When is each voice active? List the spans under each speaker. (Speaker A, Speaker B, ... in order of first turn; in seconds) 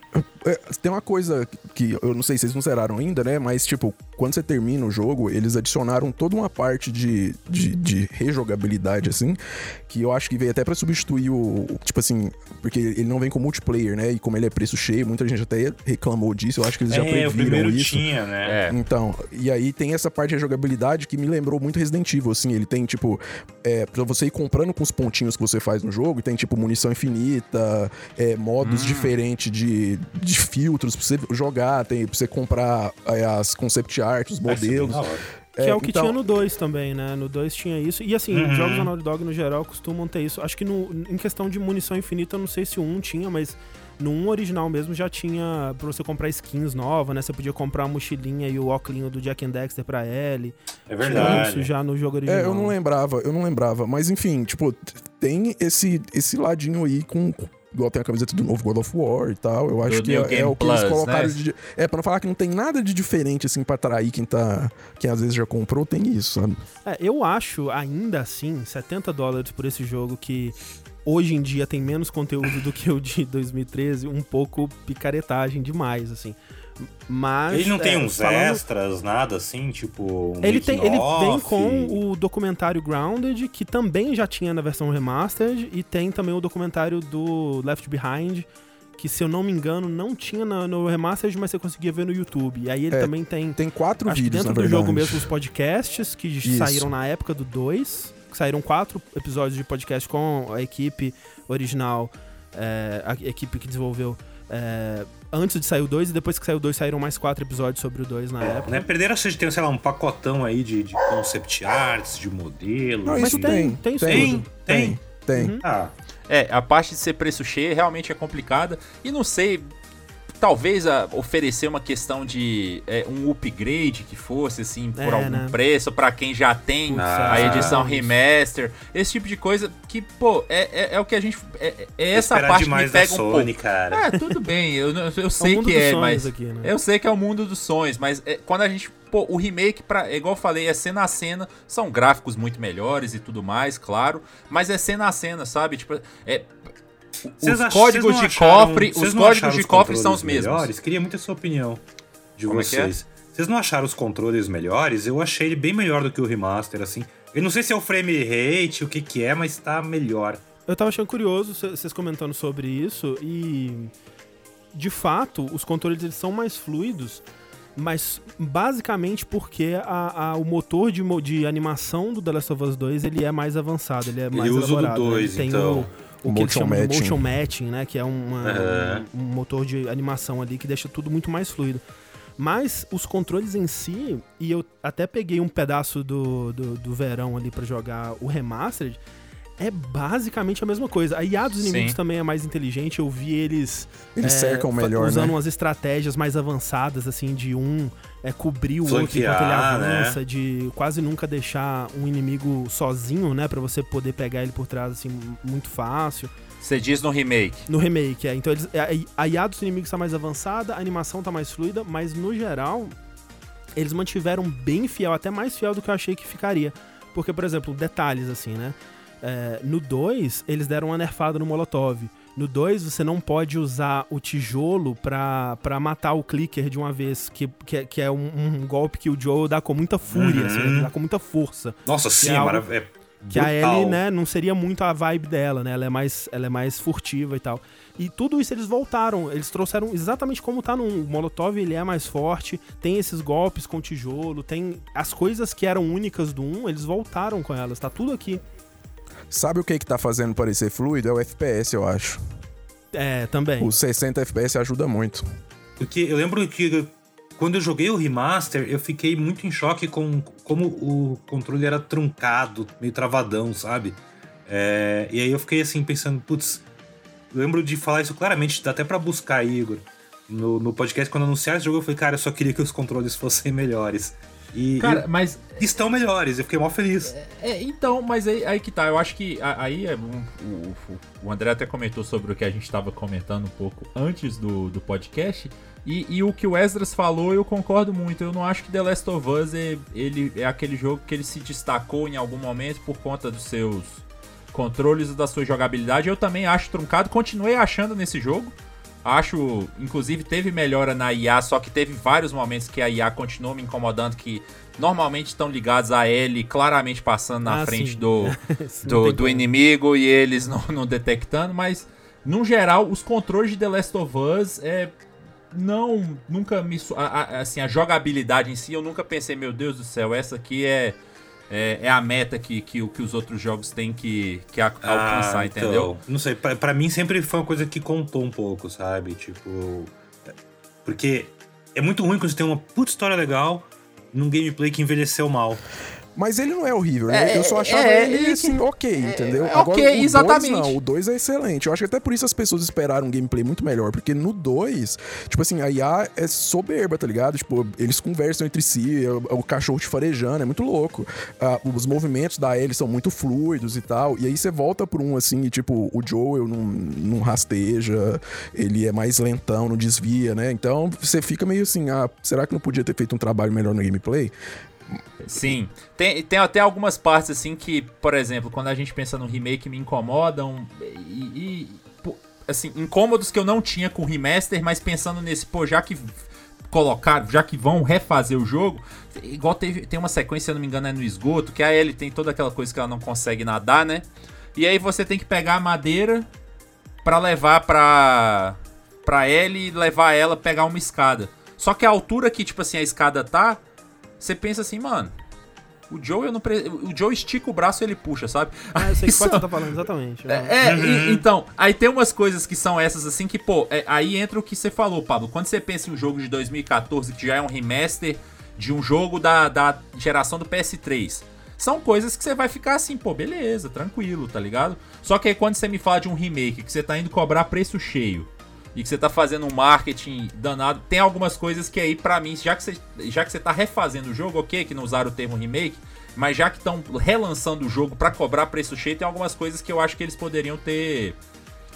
Speaker A: 0.1-18.1, 18.7-35.0, 35.6-36.2, 51.1-51.5, 52.3-66.6, 92.9-95.3, 96.4-96.9, 113.0-115.6, 176.2-177.3, 194.2-195.3, 249.3-252.2, 253.6-255.2, 336.2-364.3
Speaker B: 16.9-18.6, 34.5-35.3, 38.3-38.9, 50.9-51.7, 77.5-82.0, 108.5-115.0, 115.6-115.9, 127.0-127.8, 132.1-134.0, 147.4-151.8, 152.4-160.4, 174.3-175.9, 178.4-179.1, 198.8-200.2, 230.1-230.9, 231.8-234.0, 255.8-266.6, 267.3-275.1, 275.6-277.1, 324.8-330.0, 330.9-335.6, 400.6-401.2
Speaker C: 18.4-18.8, 28.6-29.1, 59.9-61.4, 116.3-119.7, 120.4-146.5, 147.3-150.7, 152.5-152.9, 191.6-192.0, 206.6-207.7, 274.8-275.6, 277.1-314.9, 315.5-321.0, 321.5-325.9, 337.1-340.8, 365.2-386.3, 387.0-393.6, 394.2-395.1, 395.9-399.5, 400.3-431.2
Speaker D: 35.6-52.7, 66.8-78.6, 80.4-88.5, 89.0-108.9, 113.2-114.5, 115.3-115.6, 125.0-125.6, 126.9-128.1, 135.4-136.7, 160.7-163.9, 164.7-167.2, 167.8-181.8, 182.4-189.0, 189.6-206.3, 207.7-212.9, 213.8-232.7, 233.3-248.4, 252.9-253.7, 307.4-309.5, 398.8-400.5